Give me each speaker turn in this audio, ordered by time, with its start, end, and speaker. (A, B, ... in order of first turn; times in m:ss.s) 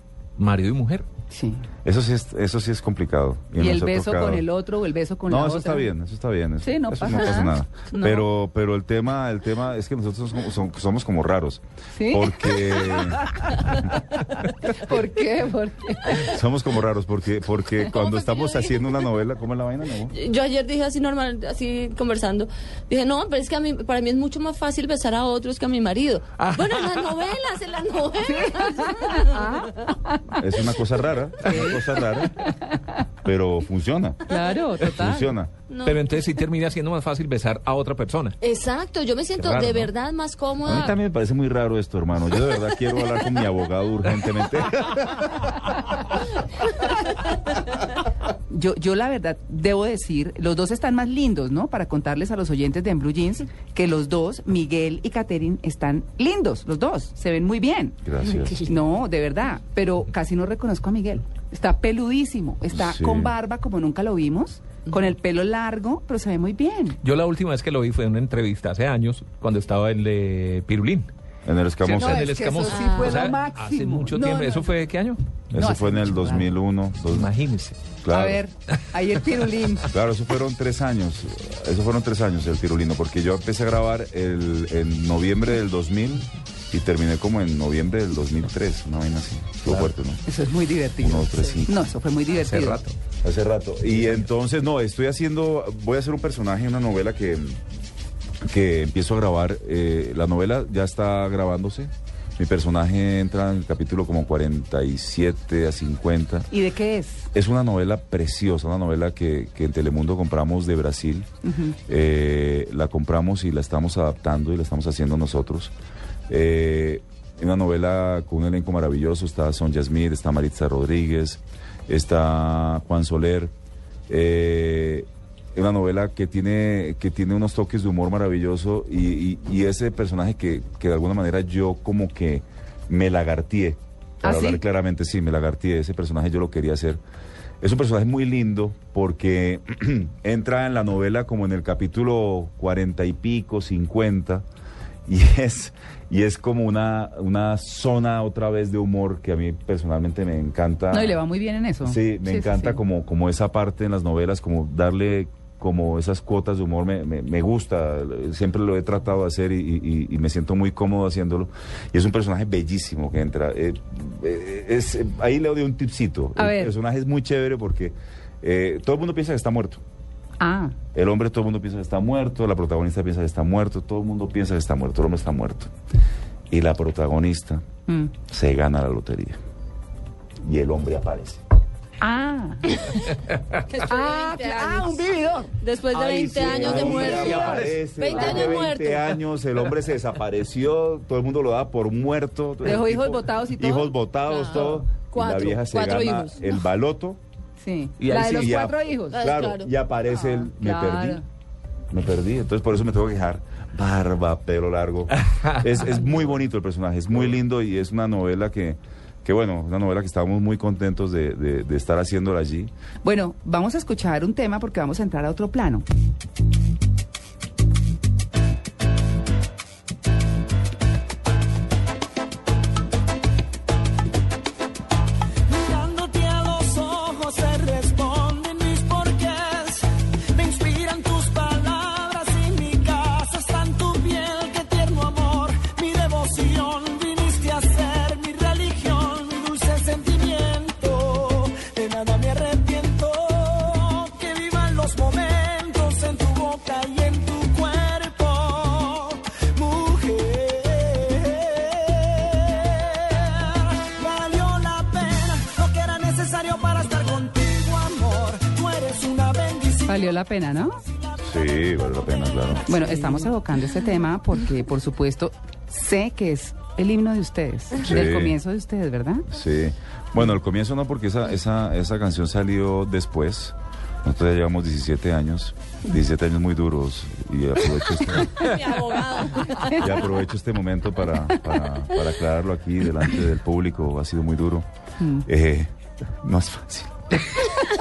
0:00.4-0:01.1 A
0:01.3-0:01.6 B
0:01.8-0:04.4 C
0:03.6-0:05.9 B
0:05.3-0:13.9 C
0:06.6-0:08.3 B
0:11.9-0:13.9 B
0:14.6-0:16.4 B
0:16.1-0:20.1 C
0:17.8-0:19.0 D
0:20.1-0:29.9 D
0:26.4-0:27.0 A
0:28.2-0:30.4 B
0:30.3-0:32.5 C
0:31.4-0:33.0 B
0:33.2-0:34.3 C
0:34.3-0:35.3 B
0:34.8-0:35.5 C
0:35.7-0:36.1 D
0:35.8-0:38.4 A
0:38.4-0:41.0 D
0:39.4-0:39.9 A
0:40.6-0:45.8 C
0:48.5-0:58.0 B
0:58.0-0:58.6 C
0:58.2-0:58.7 D
0:58.6-1:07.0 B
1:02.7-1:03.3 C
1:07.0-1:11.1 A
1:11.4-1:12.3 C
1:11.8-1:15.2 A
1:11.9-1:14.7 B
1:12.6-1:13.3 D
1:15.5-1:17.3 C
1:15.5-1:16.5 B
1:17.0-1:17.8 A
1:18.0-1:18.4 C
1:18.1-1:19.9 B
1:19.9-1:30.2 C
1:29.6-1:29.9 A
1:30.2-1:32.8 B
1:31.0-1:31.8 C
1:32.3-1:33.0 A
1:33.2-1:37.6 C
1:38.4-1:46.5 C
1:46.5-1:47.3 B
1:47.3-1:51.3 C
1:51.4-1:51.8 B
1:51.9-1:55.7 C
1:56.3-2:03.5 C
2:04.1-2:17.0 C
2:14.2-2:14.6 B
2:17.6-2:24.4 C
2:25.1-2:31.2 C
2:30.9-2:32.8 B
2:31.8-2:49.8 C
2:46.4-2:46.7 B
2:50.4-2:50.8 B
2:50.9-2:55.7 C
2:56.5-2:57.6 C
2:57.9-2:58.1 B
2:58.3-2:59.4 C
3:00.4-3:01.4 C
3:02.0-3:03.0 B
3:03.6-3:09.2 D
3:03.8-3:05.5 B
3:05.9-3:17.2 C
3:06.0-3:07.6 A
3:06.4-3:08.6 B
3:12.6-3:14.0 B
3:14.2-3:16.5 D
3:17.6-3:19.2 B
3:18.0-3:18.4 A
3:18.0-3:21.2 C
3:19.1-3:19.7 D
3:20.2-3:21.2 B
3:21.9-3:32.7 C
3:33.0-3:35.8 B
3:45.5-4:20.2 E
4:19.9-4:20.8 B
4:21.2-4:22.9 C
4:22.7-4:29.3 B
4:27.8-4:28.4 C
4:29.3-4:38.6 C
4:38.3-4:40.0 D
4:39.6-4:44.7 C
4:45.0-4:45.3 B
4:45.2-4:47.5 C